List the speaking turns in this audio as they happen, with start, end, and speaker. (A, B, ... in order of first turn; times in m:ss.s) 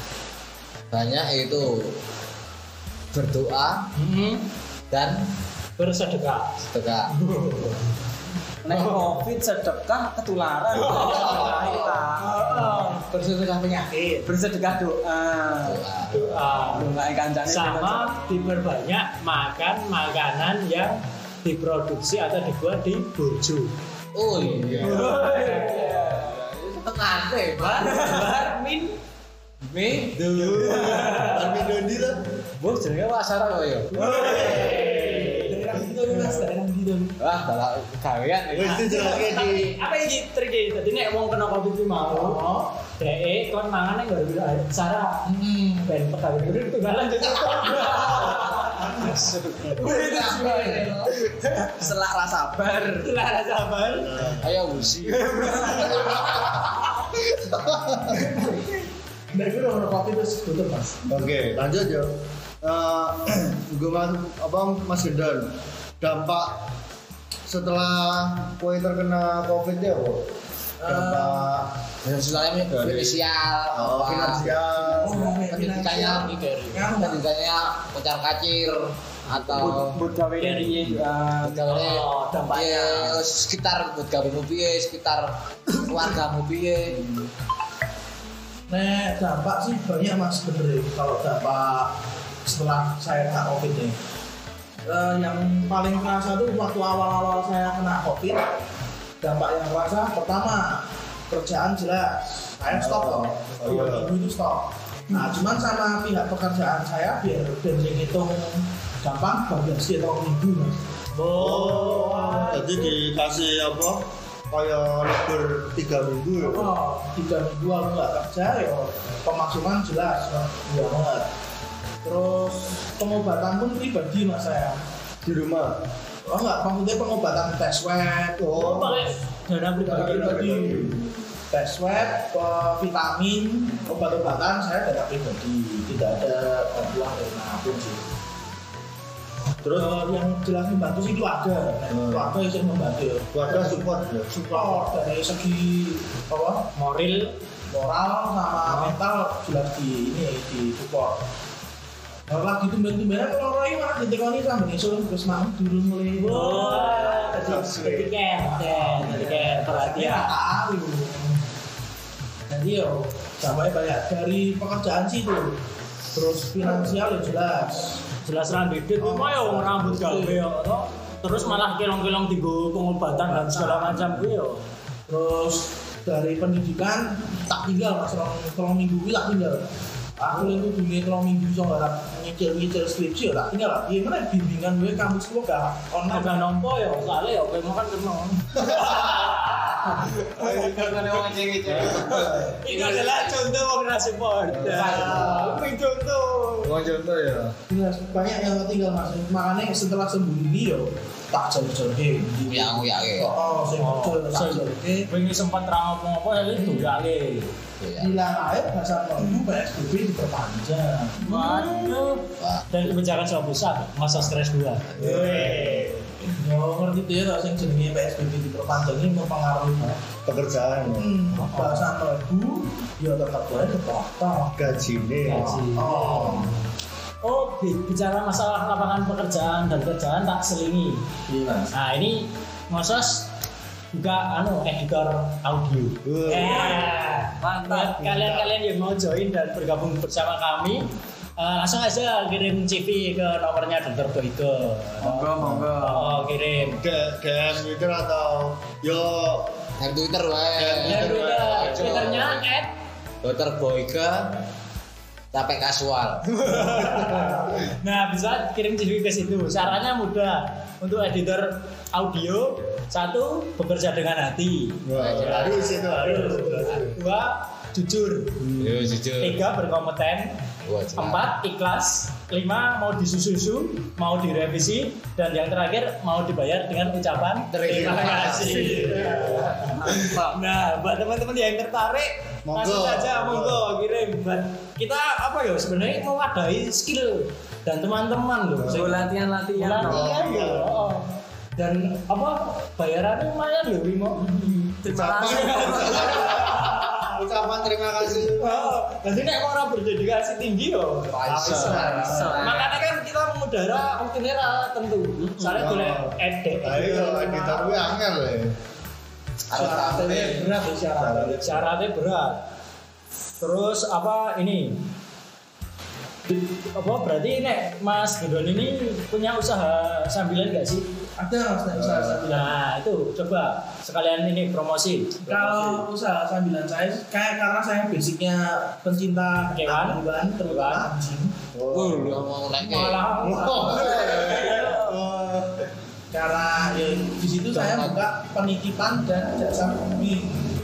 0:00.9-0:01.9 A
0:03.1-0:03.9 A
0:04.0-0:04.5 B
0:04.9-0:05.2 A
0:05.8-0:06.5 B
0:06.6-0:07.1 A
0:07.1-0:07.9 B
0:08.6-0:12.3 C
0:08.7-0:09.2 B
0:10.7-0:13.1 B
0:11.4-0:11.9 A
0:12.3-0:14.3 D
0:14.2-0:15.8 C
0:15.6-0:16.5 A
0:16.2-0:16.9 B
0:16.6-0:18.6 C
0:17.4-0:23.7 B
0:24.1-0:25.1 A
0:24.5-0:25.0 E
0:24.8-0:26.4 C
0:24.9-0:26.2 B
0:26.2-0:28.2 A
0:27.6-0:29.0 B
0:27.8-0:28.4 C
0:29.6-0:31.2 A
0:30.1-0:32.2 E
0:30.9-0:31.6 B
0:32.6-0:33.9 A
0:33.9-0:37.2 D
0:34.0-0:35.7 B
0:37.2-0:39.1 A
0:38.5-0:39.8 E
0:38.7-0:51.1 B
0:42.1-0:42.6 D
0:49.0-0:49.7 A
0:49.7-0:53.1 C
0:53.0-0:54.1 B
0:53.8-0:54.9 E
0:54.4-0:55.9 A
0:55.0-0:56.4 C
0:57.4-0:58.3 E
0:59.3-1:01.0 D
1:01.1-1:06.6 E
1:07.5-1:10.3 E
1:10.8-1:11.5 D
1:10.8-1:11.7 E
1:12.0-1:14.4 A
1:12.7-1:15.4 E
1:14.6-1:17.2 D
1:15.5-1:20.0 A
1:19.5-1:21.7 C
1:20.4-1:21.0 B
1:21.4-1:27.0 A
1:21.7-1:23.2 B
1:28.7-1:31.9 D
1:32.4-1:34.0 D
1:34.8-1:38.5 D
1:39.2-1:50.8 D
1:42.7-1:44.1 E
1:51.1-1:53.0 B
1:51.3-1:56.7 E
1:56.4-2:01.3 D
2:02.0-2:04.8 D
2:05.2-2:05.8 E
2:06.2-2:08.5 D
2:08.4-2:09.1 E
2:08.5-2:10.8 B
2:09.8-2:11.0 E
2:10.0-2:10.9 D
2:11.5-2:18.0 D
2:19.6-2:19.9 E
2:19.7-2:26.6 D
2:21.9-2:22.3 E
2:23.3-2:24.9 E
2:26.8-2:27.3 B
2:27.7-2:31.2 D
2:28.7-2:29.0 B
2:32.3-2:37.0 D
2:36.2-2:40.4 B
2:37.2-2:38.1 E
2:38.3-2:41.4 D
2:42.5-2:45.6 D
2:46.1-2:48.0 D
2:48.2-2:54.6 B
2:49.0-2:50.4 D
2:53.1-2:54.3 D
2:55.1-2:59.6 D
3:00.2-3:06.4 D
3:06.0-3:11.0 B
3:08.6-3:08.9 E
3:10.3-3:13.5 A
3:11.7-3:12.6 E
3:11.9-3:16.8 B
3:14.5-3:15.4 E
3:14.5-3:15.7 A
3:14.7-3:15.7 D
3:16.6-3:17.6 A
3:17.7-3:25.1 D
3:22.5-3:23.3 A
3:23.8-3:27.5 B
3:27.8-3:28.1 A
3:28.0-3:31.7 D
3:31.2-3:35.9 B
3:32.4-3:33.0 A
3:35.0-3:35.9 E
3:35.0-3:40.0 D
3:40.2-3:41.1 E
3:41.0-3:44.6 D
3:41.4-3:41.8 B
3:44.5-3:45.6 E
3:45.2-3:46.5 B
3:45.4-3:46.5 D
3:47.2-3:51.0 B
3:51.3-3:51.7 D
3:51.7-3:53.3 B
3:53.9-4:00.9 B
3:56.0-3:56.8 E
3:57.4-3:58.1 C
3:58.1-3:58.5 E
4:01.4-4:06.8 B
4:05.0-4:06.2 C
4:05.4-4:05.7 E
4:06.6-4:09.6 E
4:09.8-4:12.4 A
4:10.5-4:12.1 E
4:10.8-4:12.7 B
4:13.2-4:14.4 A
4:15.3-4:16.5 A
4:16.4-4:28.5 B
4:16.6-4:17.4 E
4:24.8-4:27.0 E
4:24.9-4:26.8 A
4:28.4-4:28.9 E
4:28.6-4:29.5 A
4:29.2-4:30.3 B
4:30.6-4:31.3 A
4:31.0-4:57.2 B
4:37.4-4:38.8 A
4:37.6-4:39.5 E
4:39.0-4:39.2 C
4:39.8-4:40.4 C
4:42.5-4:43.7 E
4:48.6-4:49.0 E
4:48.6-4:50.2 C
4:49.8-4:50.9 E
4:54.6-4:56.4 C
4:54.9-4:58.8 E
4:58.4-5:07.9 B
5:01.1-5:02.8 A
5:01.4-5:02.3 E
5:01.4-5:01.9 D
5:01.8-5:02.7 C
5:05.5-5:08.5 E
5:09.5-5:10.5 A
5:09.5-5:11.7 D
5:11.0-5:11.6 E
5:11.4-5:12.4 B
5:13.4-5:14.8 B
5:16.3-5:20.8 B
5:21.2-5:22.6 D
5:21.7-5:22.2 E
5:22.2-5:25.7 B
5:25.2-5:31.4 D
5:29.5-5:30.9 B
5:31.5-5:32.3 E
5:31.7-5:33.2 A
5:32.5-5:34.9 B
5:33.2-5:35.7 E
5:36.1-5:40.6 D
5:37.5-5:38.0 A